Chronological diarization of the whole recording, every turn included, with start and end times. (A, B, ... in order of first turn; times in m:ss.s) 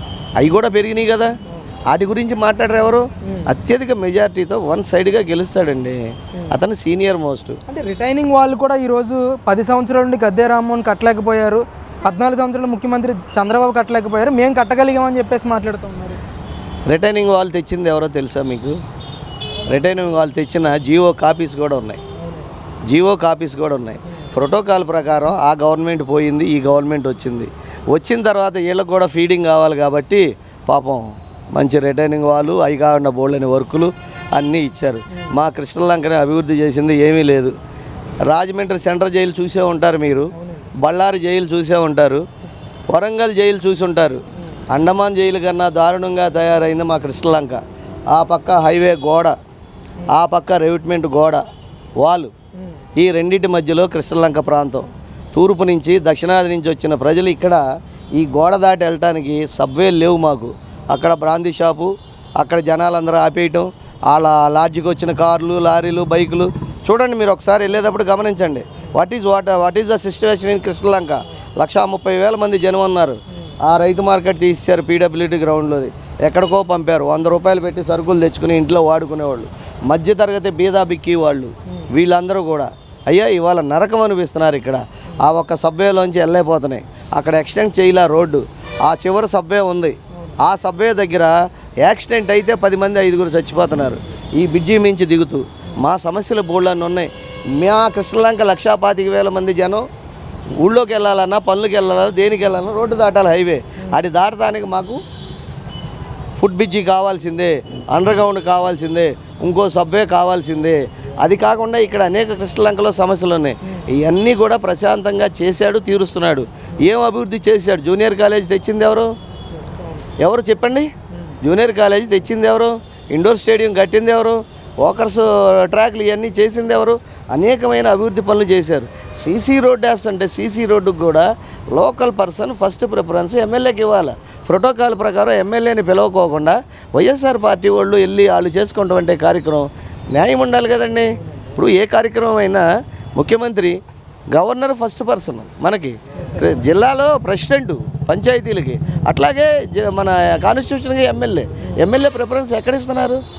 0:00.4-0:06.0 A
0:03.2-0:03.5 B
0:06.5-0:07.6 A
0:07.7-0:16.2 B
0:16.9-0:18.8 A
0:19.7-0:22.0 A
0:22.2-0:22.5 B
0:22.9-0:37.6 A
0:24.1-0:24.4 B
0:38.3-0:40.3 A
0:40.3-0:40.7 B
0:40.8-0:42.2 A
0:42.9-0:47.6 A
0:48.1-0:49.4 A
0:50.1-0:51.4 A
0:52.0-0:52.3 A
0:52.6-0:52.8 B
0:53.0-0:57.6 A
0:58.2-1:39.8 A
1:40.6-1:45.0 A
1:46.4-1:59.1 A
1:59.5-2:00.1 B
2:00.2-2:00.9 A
2:01.4-2:23.8 A
2:24.3-2:33.2 A
2:26.2-2:26.5 B